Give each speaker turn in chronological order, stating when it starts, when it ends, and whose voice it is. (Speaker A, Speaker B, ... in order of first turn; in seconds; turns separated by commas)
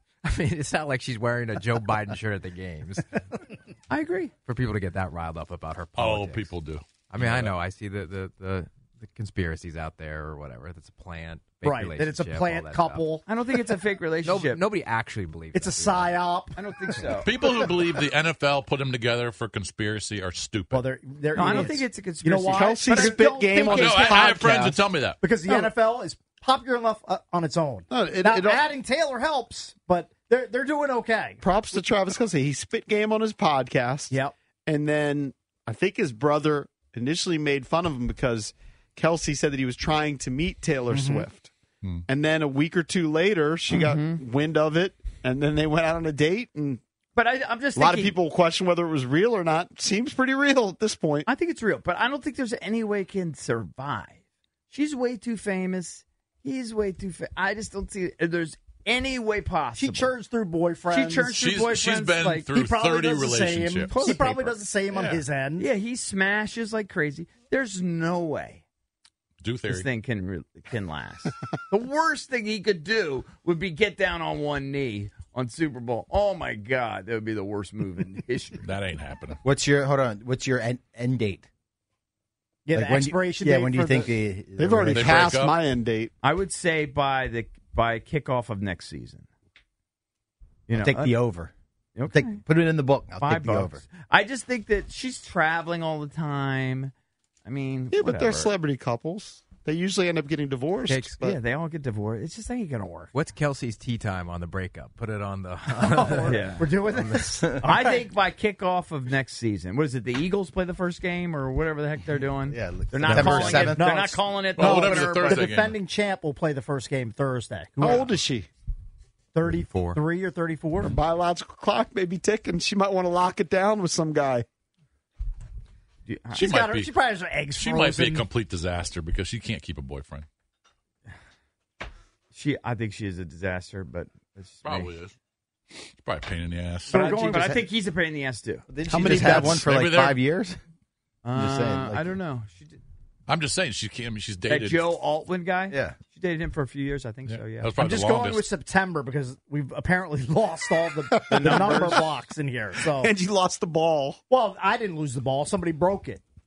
Speaker A: 0.2-6.5, Speaker B: 3.9-4.3, Speaker C: 6.0-7.5, Speaker A: 7.1-16.2, Speaker D: 11.6-13.3, Speaker B: 13.3-14.6, Speaker D: 15.5-17.7, Speaker B: 16.6-17.2, Speaker A: 16.8-17.2, Speaker C: 17.2-20.9, Speaker D: 20.7-24.6, Speaker B: 21.4-22.7, Speaker A: 21.4-23.1, Speaker E: 22.5-24.8, Speaker C: 23.7-25.3, Speaker D: 25.2-31.4, Speaker A: 25.4-25.7, Speaker E: 27.9-28.7, Speaker E: 31.4-41.5, Speaker D: 40.9-41.3, Speaker E: 42.1-46.8, Speaker B: 47.2-48.1, Speaker E: 47.8-51.3, Speaker B: 51.3-54.1, Speaker B: 54.7-60.1, Speaker D: 59.8-61.4, Speaker B: 60.9-61.8, Speaker C: 61.2-65.2, Speaker A: 61.8-62.1, Speaker D: 62.2-65.7, Speaker B: 65.6-68.6, Speaker C: 69.4-69.9, Speaker B: 69.8-78.6, Speaker C: 78.6-79.4, Speaker F: 79.4-81.5, Speaker D: 82.7-84.1, Speaker F: 82.7-85.2, Speaker E: 84.6-86.1, Speaker C: 84.9-85.6, Speaker B: 86.2-89.2, Speaker A: 87.5-87.7, Speaker B: 90.7-91.0, Speaker F: 90.7-91.5, Speaker B: 92.0-92.3, Speaker F: 92.1-93.8, Speaker B: 93.2-96.9, Speaker B: 97.5-98.5, Speaker E: 97.9-101.4, Speaker A: 100.9-101.3, Speaker B: 101.3-103.1, Speaker A: 103.1-107.2, Speaker D: 105.8-108.1, Speaker B: 106.3-106.6, Speaker B: 107.7-115.3, Speaker F: 112.5-113.9, Speaker A: 112.9-113.6, Speaker D: 113.1-118.1, Speaker C: 114.6-115.8, Speaker E: 117.8-118.5, Speaker D: 119.3-121.0, Speaker A: 119.5-120.0, Speaker E: 120.8-124.5, Speaker B: 126.1-126.3, Speaker D: 126.3-128.3, Speaker C: 126.4-126.9, Speaker C: 127.6-130.3, Speaker B: 132.3-134.9, Speaker C: 134.6-135.1, Speaker C: 135.8-137.1, Speaker D: 136.9-137.7, Speaker B: 136.9-138.7, Speaker A: 137.0-137.5, Speaker F: 138.7-140.6, Speaker E: 138.9-139.6, Speaker C: 139.1-140.2, Speaker F: 141.3-142.2, Speaker B: 141.4-142.8, Speaker C: 143.3-145.0, Speaker B: 144.5-147.7, Speaker F: 145.7-146.0, Speaker C: 147.3-148.5, Speaker D: 147.8-153.1, Speaker E: 151.1-152.2, Speaker E: 152.8-154.2, Speaker D: 154.3-156.2